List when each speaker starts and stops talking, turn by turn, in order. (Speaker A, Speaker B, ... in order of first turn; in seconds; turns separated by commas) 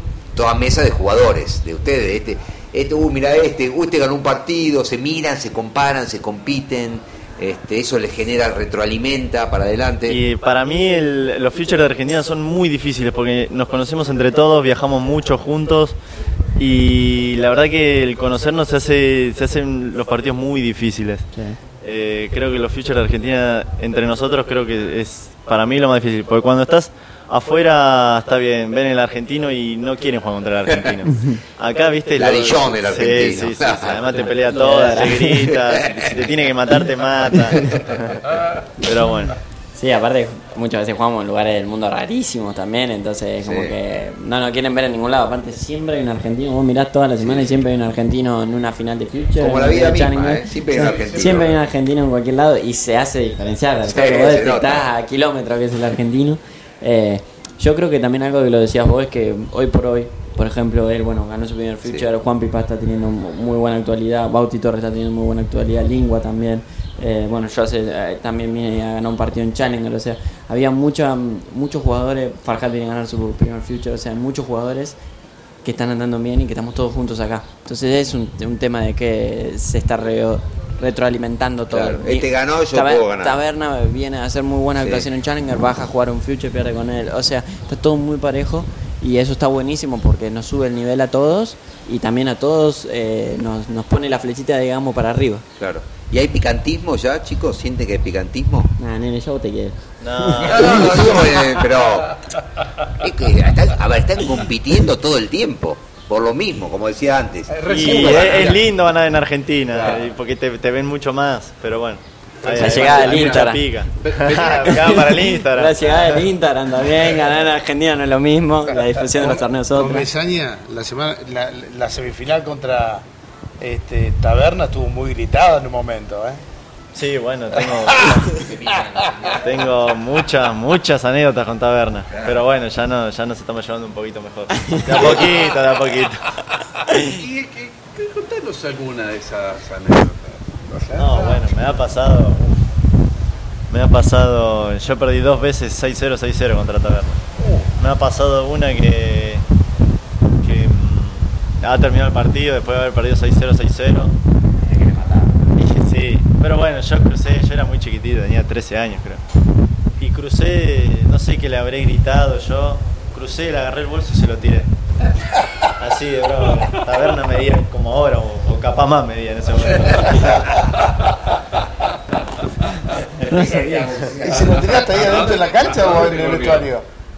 Speaker A: 0.3-10.2, Speaker B: 10.1-15.9, Speaker B: 16.6-21.2, Speaker B: 21.8-38.2, Speaker A: 32.1-34.2, Speaker C: 34.5-35.4, Speaker A: 35.5-36.1, Speaker B: 38.8-39.4, Speaker C: 39.8-75.0, Speaker A: 43.4-43.7, Speaker A: 47.2-47.6, Speaker A: 49.4-51.5, Speaker D: 50.7-51.4, Speaker A: 53.8-54.9, Speaker C: 75.6-95.4, Speaker A: 81.7-83.4, Speaker A: 84.8-85.1, Speaker A: 95.6-98.7, Speaker C: 98.8-100.8, Speaker B: 100.0-100.8, Speaker A: 100.5-102.1, Speaker D: 100.5-102.2, Speaker A: 103.0-108.6, Speaker D: 107.5-108.6, Speaker B: 107.7-116.3, Speaker D: 109.8-110.1, Speaker D: 112.4-115.2, Speaker C: 112.5-113.6, Speaker C: 114.5-120.1, Speaker E: 119.2-123.0, Speaker E: 123.6-126.4, Speaker B: 126.9-128.4, Speaker E: 127.9-128.2, Speaker A: 128.3-129.5, Speaker B: 129.3-136.4, Speaker D: 136.9-141.7, Speaker B: 141.0-142.5, Speaker B: 143.7-147.2, Speaker D: 147.4-147.7, Speaker B: 147.8-149.4, Speaker B: 150.4-154.1, Speaker A: 154.6-155.3, Speaker B: 155.6-159.2, Speaker B: 160.0-164.7, Speaker B: 165.6-170.7, Speaker D: 170.5-171.1, Speaker B: 172.9-174.1, Speaker C: 173.3-174.1, Speaker D: 173.5-176.7, Speaker E: 174.2-176.8